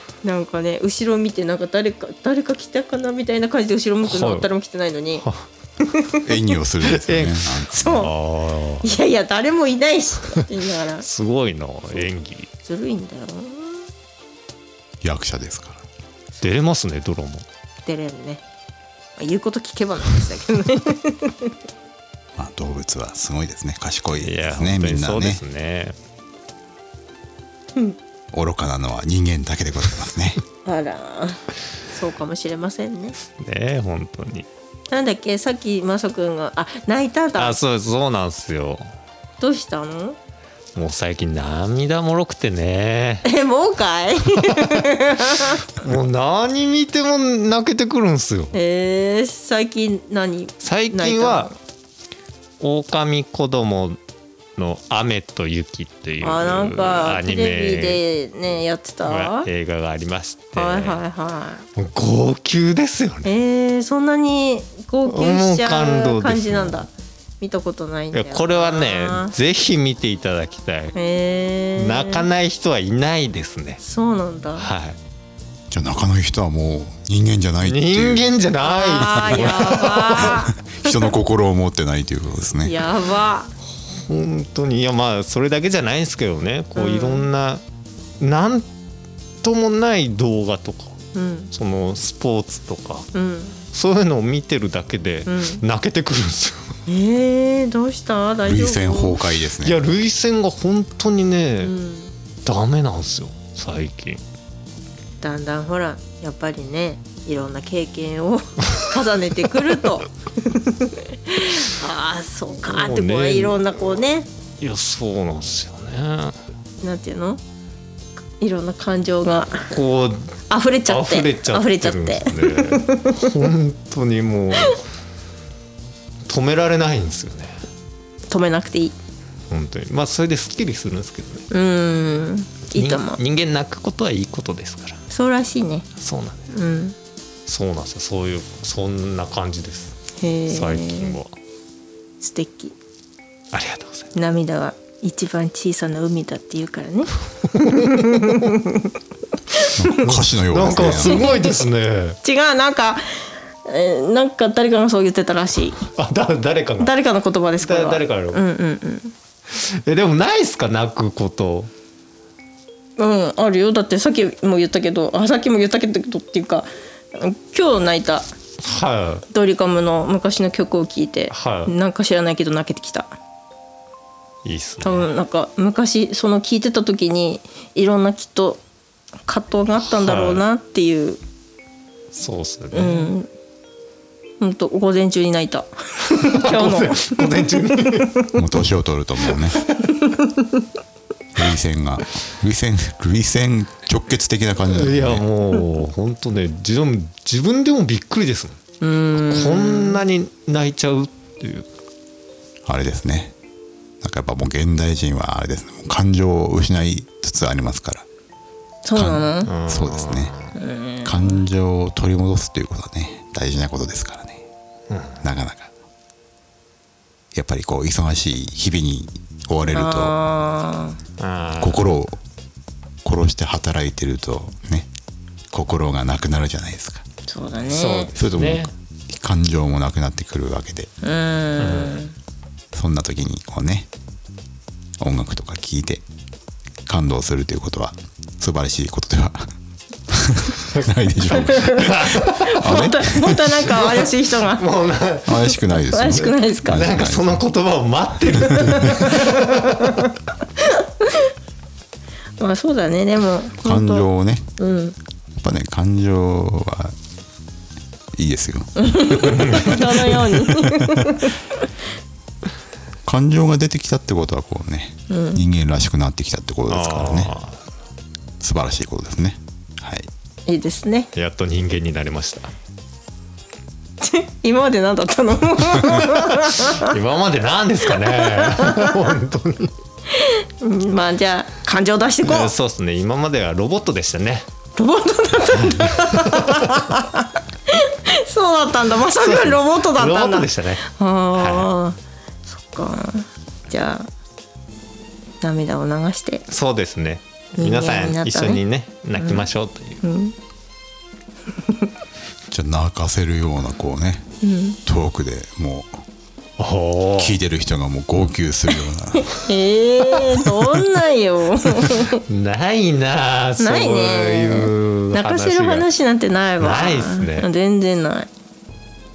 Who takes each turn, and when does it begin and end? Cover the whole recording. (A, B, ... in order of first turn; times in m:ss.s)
0:00.2-0:05.2 A
0:04.0-0:04.5 B
0:05.8-0:06.3 A
0:06.2-0:07.9 C
0:06.8-0:08.8 B
0:07.7-0:08.1 A
0:08.8-0:11.0 A
0:11.0-0:12.5 B
0:12.6-0:13.8 A
0:15.0-0:15.8 C
0:16.4-0:17.4 B
0:17.8-0:18.4 A
0:19.2-0:21.5 A
0:22.4-0:25.4 C
0:24.2-0:26.0 B
0:28.3-0:30.4 C
0:30.6-0:33.2 A
0:33.2-0:34.5 B
0:34.9-0:37.6 A
0:37.4-0:38.9 B
0:39.4-0:40.2 A
0:40.7-0:43.2 B
0:43.2-0:45.7 A
0:44.5-0:44.7 B
0:45.5-0:48.5 B
0:48.5-0:51.5 A
0:50.6-0:51.5 B
0:52.6-0:54.0 B
0:54.6-0:58.0 B
0:56.2-0:59.5 A
0:59.0-1:01.0 B
1:00.5-1:01.6 A
1:01.8-1:03.3 B
1:03.2-1:06.9 A
1:05.1-1:06.8 B
1:07.4-1:09.3 A
1:08.1-1:10.9 B
1:10.9-1:12.2 A
1:11.8-1:13.8 B
1:13.8-1:14.7 A
1:14.6-1:15.0 B
1:15.7-1:18.3 C
1:17.6-1:20.4 B
1:18.6-1:20.9 A
1:19.1-1:19.5 C
1:20.2-1:22.7 C
1:22.6-1:23.5 A
1:24.0-1:27.6 B
1:26.8-1:27.3 A
1:28.2-1:28.7 B
1:29.4-1:31.0 B
1:31.1-1:31.5 A
1:31.5-1:33.1 B
1:33.1-1:33.6 A
1:33.7-1:36.8 B
1:35.3-1:35.6 A
1:36.9-1:39.2 A
1:38.4-1:39.8 C
1:39.6-1:41.7 B
1:41.6-1:42.1 A
1:42.4-1:44.2 B
1:45.2-1:54.3 A
1:52.6-1:53.7 B
1:54.6-1:56.4 B
1:56.8-1:57.4 A
1:58.4-1:59.7 A
1:59.7-2:00.4 B
2:00.5-2:03.3 A
2:00.9-2:04.8 B
2:06.3-2:07.6 B
2:08.3-2:08.9 A
2:09.5-2:11.5 B
2:11.5-2:13.2 A
2:12.7-2:15.0 B
2:15.1-2:15.8 A
2:16.0-2:16.5 B
2:16.5-2:16.9 A
2:17.5-2:20.0 B
2:20.2-2:21.2 A
2:20.5-2:21.3 B
2:22.2-2:22.7 A
2:23.5-2:24.1 B
2:24.1-2:28.9 A
2:27.5-2:28.5 B
2:29.5-2:30.2 A
2:29.8-2:31.5 C
2:30.4-2:32.2 B
2:31.0-2:31.6 A
2:32.2-2:33.0 A
2:33.6-2:35.8 A
2:35.9-2:37.0 B
2:36.8-2:39.1 A
2:37.6-2:38.4 B
2:39.5-2:41.7 B
2:43.0-2:48.3 A
2:48.6-2:49.2 B
2:49.3-2:53.1 A
2:51.3-2:51.7 B
2:54.4-2:55.1 B
2:54.8-2:58.6 A
2:59.3-3:01.2 A
2:59.8-3:00.4 B
3:02.1-3:03.1 B
3:02.7-3:03.3 A
3:04.4-3:08.4 A
3:06.2-3:08.2 B
3:08.4-3:09.6 C
3:09.9-3:10.6 A
3:11.3-3:15.2 C
3:14.7-3:18.6 B
3:18.8-3:20.0 A
3:19.1-3:21.7 B
3:22.6-3:23.3 C
3:24.0-3:28.0 C
3:28.8-3:29.5 A
3:28.9-3:30.3 C
3:29.4-3:30.5 B
3:30.5-3:31.4 A
3:31.0-3:34.4 C
3:34.9-3:35.2 B
3:35.2-3:35.7 C
3:37.3-3:40.2 C
3:39.7-3:41.0 A
3:41.2-3:41.9 B
3:41.6-3:42.2 C
3:43.0-3:44.9 C
3:45.5-3:47.0 C
3:47.3-3:48.1 A
3:47.7-3:48.7 B
3:48.2-3:50.9 C
3:51.0-3:52.1 A
3:51.6-3:52.0 B
3:52.7-3:53.9 C
3:55.0-3:56.0 C
3:56.9-3:59.5 C
4:00.1-4:03.5 C
4:01.3-4:04.7 A
4:01.6-4:02.5 B
4:03.7-4:05.4 B
4:05.2-4:07.4 C
4:05.5-4:06.9 A
4:06.2-4:10.0 B
4:08.5-4:09.1 C
4:09.1-4:11.3 A
4:12.4-4:14.9 A
4:13.6-4:14.5 C
4:15.4-4:17.0 C
4:18.1-4:21.1 C
4:18.8-4:21.4 A
4:19.2-4:19.8 B
4:23.0-4:27.3 C
4:25.1-4:25.4 A
4:26.7-4:27.6 B
4:28.4-4:30.1 C
4:30.5-4:31.1 A
4:31.1-4:32.5 B
4:34.0-4:36.9 A
4:35.8-4:39.7 B
4:38.0-4:39.0 A
4:40.1-4:42.5 A
4:42.2-4:44.5 B
4:44.8-4:54.1 A
4:45.7-4:46.6 B
4:49.1-4:50.8 B
4:51.3-4:51.7 B
4:55.4-4:56.4 A
4:56.5-5:00.0 B
4:57.6-4:58.6 A
4:59.2-4:59.4 A
5:00.0-5:00.3 A
5:02.5-5:04.3 C
5:04.4-5:04.8 A
5:04.8-5:05.9 C
5:06.6-5:07.4 B
5:07.2-5:09.4 C
5:09.2-5:12.2 A
5:12.3-5:15.8 B
5:13.6-5:18.3 A
5:16.6-5:17.5 B